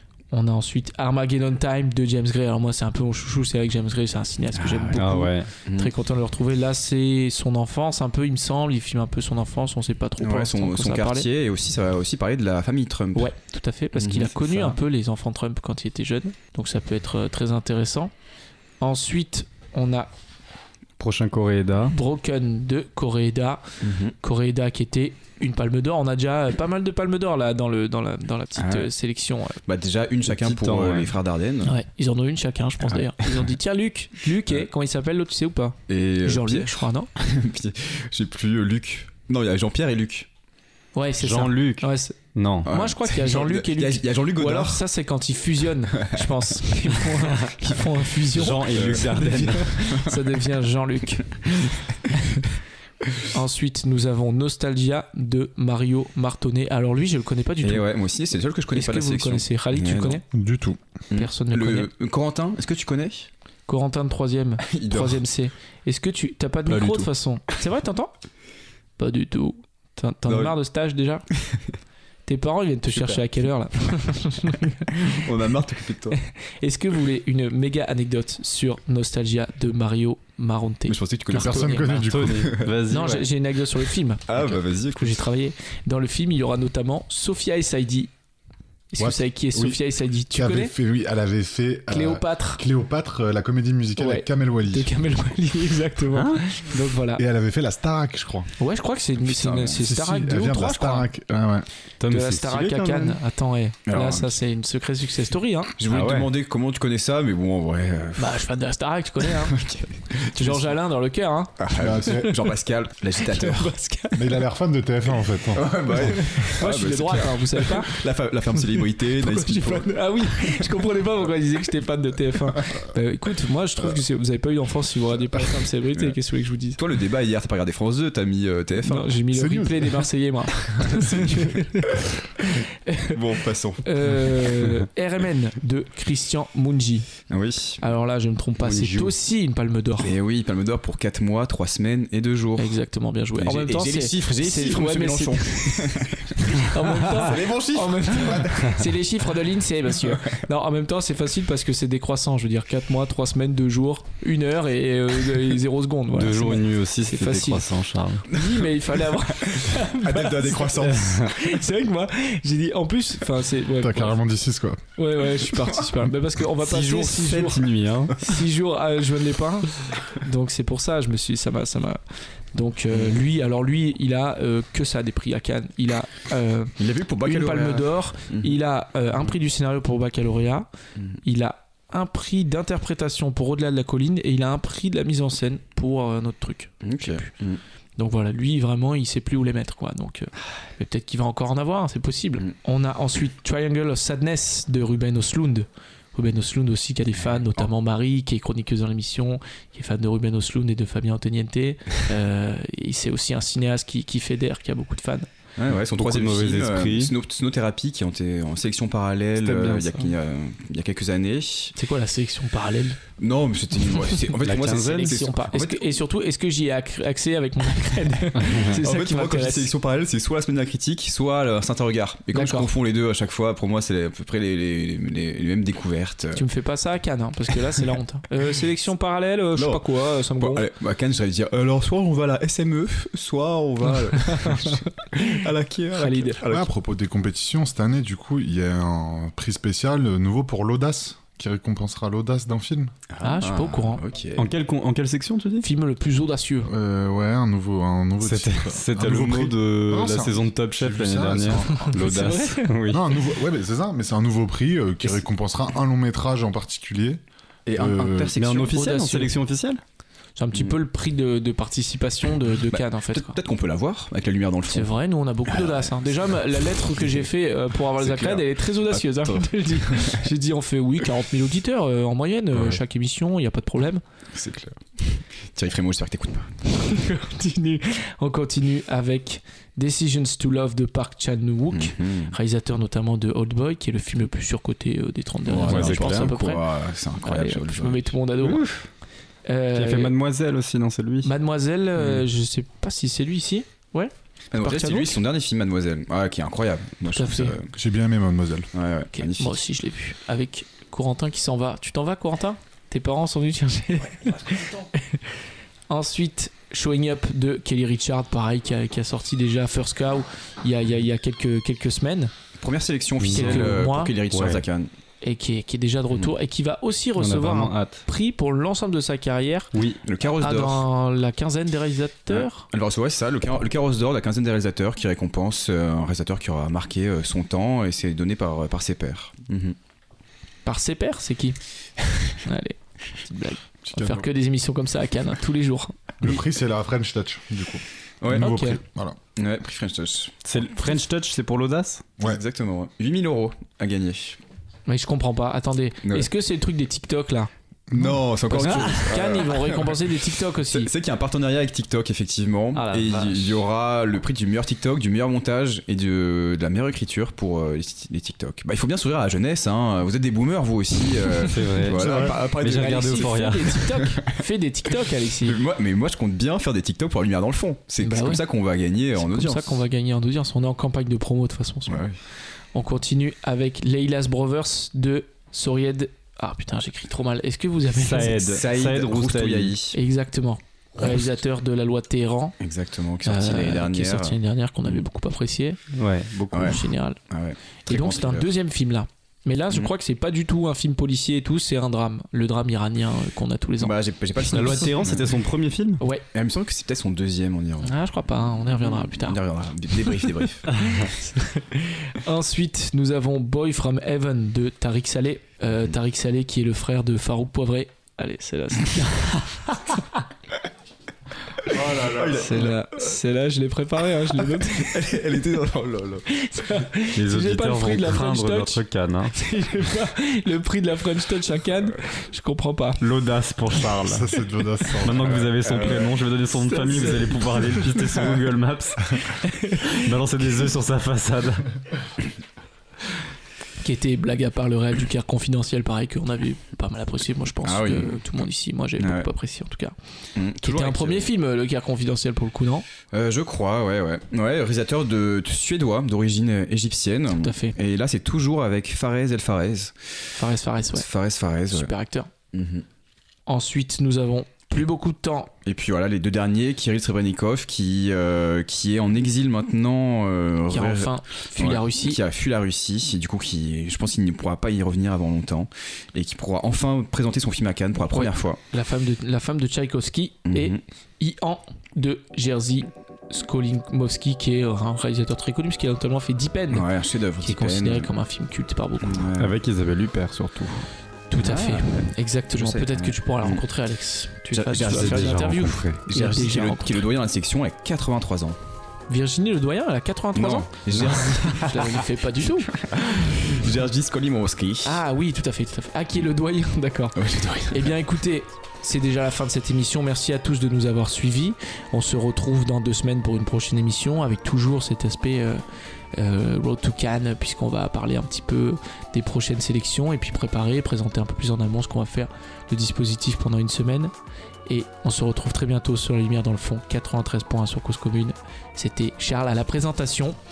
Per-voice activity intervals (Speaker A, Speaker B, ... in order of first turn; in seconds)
Speaker A: 0.3-11.3, 13.1-18.1, 18.8-20.1, 21.9-23.6, 24.2-29.6, 31.6-37.1, 40.9-52.4, 53.3-57.9, 58.7-60.2, 61.1-61.9, 63.7-68.1, 69.0-71.2, 72.2-75.2, 76.1-82.0, 82.9-88.1, 88.9-90.7, 91.9-92.6, 94.0-97.2, 98.6-101.1, 102.1-105.7, 108.2-109.6, 110.3-112.3, 113.2-114.4, 116.0-118.0, 118.6-126.8, 128.8-133.2, 133.8-137.1, 137.8-140.1, 142.6-157.7, 158.2-164.2, 165.0-172.0, 172.5-180.7, 181.2-187.3, 188.0-205.2, 211.8-213.0, 214.7-219.7, 222.3-222.7, 226.3-230.7, 234.2-235.3, 236.0-236.4, 243.2-244.0, 245.6-246.7, 251.8-252.8, 258.8-259.3, 260.4-263.4, 264.7-274.0, 276.7-286.7, 287.2-288.6, 289.4-290.1, 291.2-295.2, 297.1-297.6, 299.1-305.2, 305.9-312.3, 313.3-314.1, 315.2-319.7, 320.3-322.7, 330.6-331.6, 332.3-336.0, 338.3-338.8, 344.9-347.5, 348.5-350.9, 362.5-365.6, 368.0-368.4, 369.1-372.1, 372.7-378.5, 379.9-382.6, 383.2-385.8, 386.6-387.2, 387.9-394.9, 396.0-396.2, 397.8-399.4, 400.8-409.4, 412.2-415.0, 416.3-418.8, 419.3-423.0, 426.6-428.0, 429.4-430.0, 433.8-439.9, 440.6-442.8, 447.3-447.8, 450.4-451.1, 451.7-452.3, 453.5-455.5, 460.7-462.2, 468.0-476.9, 477.4-479.3, 481.3-487.0, 489.1-492.7, 494.8-505.6, 506.1-514.1, 514.7-520.4
Speaker B: 4.5-5.0, 5.6-5.9, 10.2-13.3, 13.9-14.8, 23.8-24.1, 28.6-28.9, 29.6-31.7, 32.8-33.5, 35.9-40.3, 42.6-44.8, 45.9-46.3, 48.7-49.3, 57.6-60.2, 61.1-63.3, 64.6-65.2, 70.2-70.5, 71.3-71.6, 74.9-76.2, 80.9-82.7, 84.3-85.2, 103.8-104.4, 105.8-108.4, 109.2-110.8, 111.6-113.7, 115.5-120.7, 126.8-129.1, 133.1-134.2, 137.3-137.8, 140.0-142.8, 143.3-148.9, 149.9-150.4, 158.3-161.3, 165.5-165.8, 172.9-173.2, 176.8-178.6, 186.8-187.6, 205.6-211.7, 213.2-215.9, 218.7-226.4, 229.5-236.7, 243.1-244.5, 257.7-259.1, 262.7-264.9, 265.4-267.3, 267.9-270.3, 272.5-272.8, 274.3-276.6, 281.7-282.3, 285.4-288.1, 292.0-292.2, 294.5-297.7, 298.7-299.6, 312.6-314.9, 320.0-320.9, 322.3-329.8, 338.2-338.5, 339.3-340.5, 342.2-344.4, 346.0-346.3, 347.9-363.6, 365.4-369.8, 371.9-372.2, 378.4-380.0, 381.0-381.3, 382.6-385.0, 386.5-388.5, 393.8-395.3, 396.3-398.0, 398.5-401.1, 411.7-413.0, 414.5-416.2, 437.6-438.4, 439.0-439.3, 440.3-441.3, 443.1-449.9, 450.9-451.9, 452.5-452.8, 455.6-468.6, 470.4-470.8, 476.7-478.1, 479.0-479.5, 481.4-483.6, 484.5-488.6, 490.3-495.0, 497.1-497.9
Speaker C: 4.9-5.5, 21.0-21.9, 30.3-31.1, 41.2-42.7, 48.3-50.0, 66.7-67.0, 81.9-83.3, 96.1-96.4, 102.0-103.2, 105.9-106.3, 138.6-139.1, 156.1-158.3, 160.8-161.2, 166.6-168.2, 205.9-207.1, 209.3-210.1, 214.4-215.2, 218.4-218.7, 244.4-245.7, 248.2-253.0, 258.4-259.8, 285.5-286.3, 288.4-288.9, 289.7-291.3, 313.2-313.7, 314.3-314.6, 317.2-318.0, 319.7-320.0, 340.4-342.1, 348.6-349.0, 352.7-353.6, 361.5-363.9, 377.9-379.7, 385.9-386.8, 394.5-396.0, 400.7-401.0, 417.1-419.3, 423.0-424.3, 425.0-431.7, 479.4-480.8, 484.8-486.0
Speaker D: 60.3-60.8, 81.3-82.5, 89.0-89.8, 90.3-95.0, 97.2-98.5, 99.3-101.7, 111.7-112.3, 114.1-116.0, 129.3-130.1, 130.7-131.3, 163.8-164.8, 236.5-242.9, 246.7-252.3, 252.9-258.3, 297.7-298.7, 333.9-334.2, 336.2-339.2, 347.9-348.3, 361.9-362.5, 423.8-425.7